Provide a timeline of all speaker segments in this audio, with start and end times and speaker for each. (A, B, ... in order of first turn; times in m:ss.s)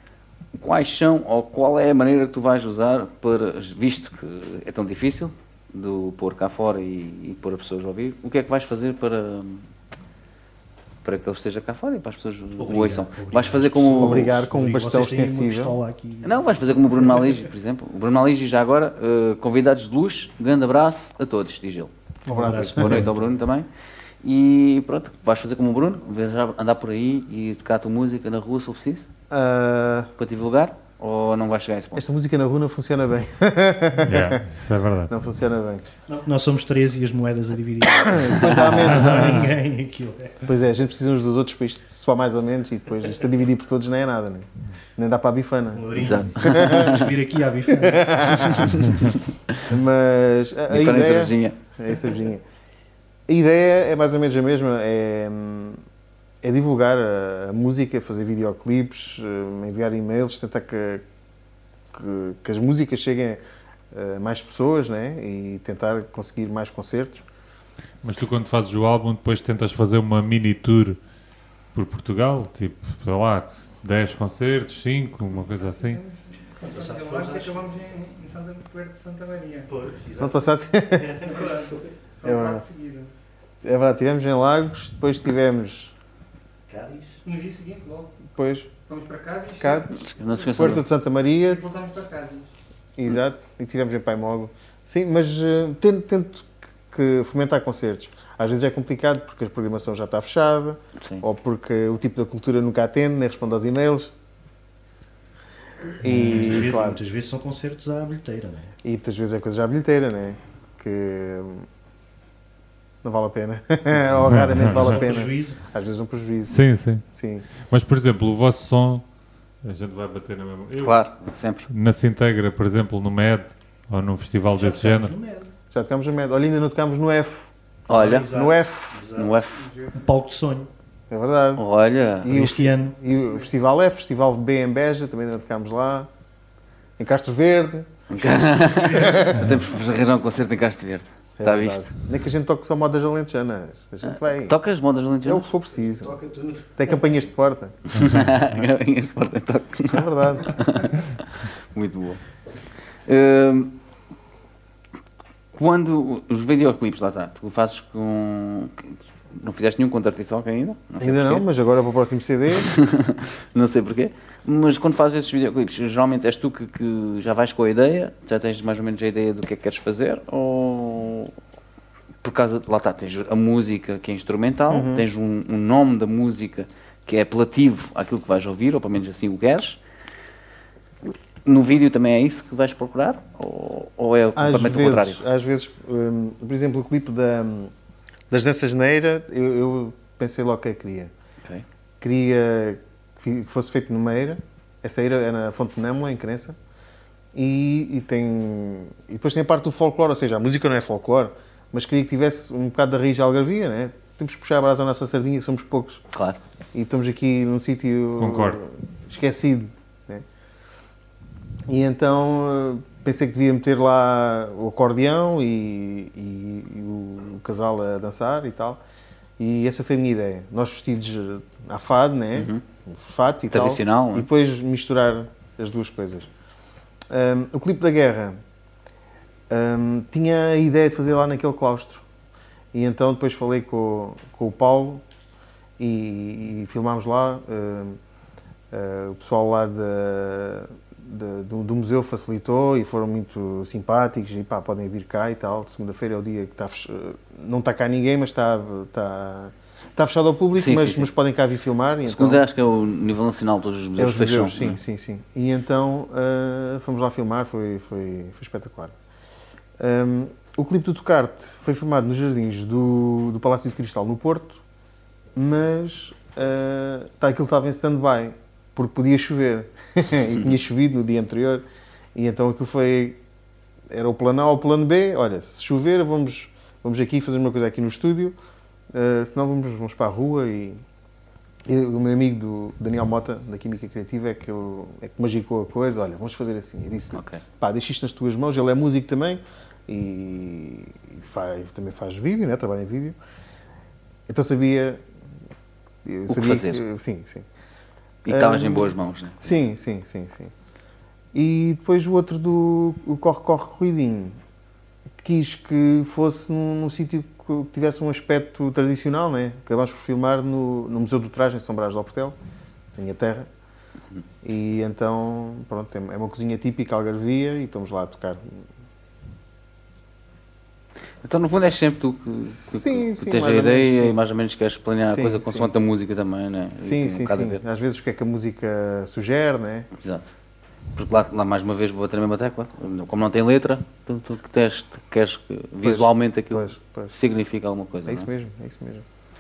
0:00.6-0:09.7 A
0:11.0-0:14.3 A
0:12.6-0:17.4 B
0:13.9-0:15.8 C
0:16.2-0:21.9 A
0:22.3-0:23.1 C
0:22.3-0:23.2 B
0:22.5-0:23.7 A
0:24.2-0:29.1 A
0:29.3-0:30.1 C
0:30.2-0:32.1 A
0:32.0-0:34.5 C
0:34.0-0:35.1 D
0:35.1-0:35.9 C
0:36.1-0:40.5 B
0:37.9-0:39.5 C
0:40.4-0:47.0 C
0:45.7-0:48.8 B
0:46.0-0:47.1 A
0:47.7-0:48.8 C
0:49.6-0:52.4 C
0:50.7-0:51.6 A
0:53.3-0:55.8 C
0:56.4-1:01.0 C
1:01.9-1:03.4 C
1:03.9-1:07.2 C
1:08.0-1:11.0 D
1:11.7-1:16.0 D
1:15.6-1:19.7 E
1:16.6-1:17.6 B
1:19.7-1:20.4 B
1:20.2-1:21.2 C
1:21.0-1:21.8 B
1:21.3-1:23.1 E
1:22.2-1:22.6 C
1:23.6-1:25.9 C
1:26.7-1:27.2 B
1:27.2-1:28.1 E
1:28.3-1:28.7 C
1:28.9-1:30.5 E
1:29.6-1:31.6 C
1:30.0-1:30.8 A
1:31.4-1:32.5 E
1:33.0-1:44.1 C
1:46.0-1:47.0 C
1:46.0-1:48.7 B
1:48.8-1:51.7 C
1:53.0-1:57.5 C
1:54.3-1:54.8 D
1:54.6-1:55.6 B
1:56.5-1:57.0 D
1:57.6-1:59.0 D
1:59.6-2:01.0 D
2:00.8-2:01.7 A
2:01.7-2:05.2 D
2:04.5-2:05.5 B
2:05.7-2:09.1 C
2:07.9-2:08.3 A
2:07.9-2:10.7 B
2:09.2-2:09.7 A
2:09.6-2:09.9 E
2:11.1-2:11.6 C
2:11.6-2:12.3 A
2:12.2-2:16.1 C
2:12.3-2:13.0 B
2:17.0-2:19.5 C
2:18.1-2:21.9 A
2:18.5-2:19.2 B
2:21.4-2:24.6 C
2:24.0-2:25.5 A
2:25.2-2:26.2 C
2:25.9-2:26.9 B
2:26.8-2:27.9 C
2:27.9-2:32.2 A
2:29.9-2:30.6 C
2:33.1-2:33.8 A
2:35.5-2:41.5 A
2:41.0-2:42.7 C
2:42.5-2:51.3 A
2:52.2-2:59.8 A
2:54.7-2:55.1 C
3:01.4-3:05.2 A
3:04.4-3:07.7 C
3:08.3-3:11.1 C
3:12.0-3:16.6 C
3:17.3-3:26.0 C
3:26.1-3:26.4 A
3:26.7-3:30.2 C
3:28.2-3:28.6 D
3:31.7-3:38.8 C
3:39.4-3:46.3 C
3:42.4-3:42.6 A
3:43.5-3:44.3 A
3:47.1-3:48.4 C
3:49.5-3:52.0 C
3:52.7-3:55.0 C
3:55.8-3:58.0 C
3:58.7-4:12.4 C
4:10.6-4:11.1 A
4:12.1-4:14.8 A
4:14.0-4:18.9 C
4:19.8-4:24.6 C
4:25.4-4:31.6 C
4:32.2-4:33.2 C
4:33.9-4:38.4 C
4:38.9-4:40.8 C
4:41.7-4:53.2 C
4:47.1-4:47.4 A
4:54.3-4:55.0 C
4:56.0-4:57.5 C
4:56.3-4:56.8 A
4:58.3-4:59.6 A
4:58.3-5:00.5 C
5:01.3-5:04.4 C
5:05.2-5:12.4 C
5:13.0-5:13.5 C
5:14.4-5:18.6 C
5:21.2-5:27.6 A
5:22.4-5:24.2 C
5:25.0-5:25.7 C
5:26.8-5:29.9 C
5:29.9-5:30.3 A
5:31.0-5:38.3 A
5:35.8-5:37.1 C
5:38.1-5:39.0 C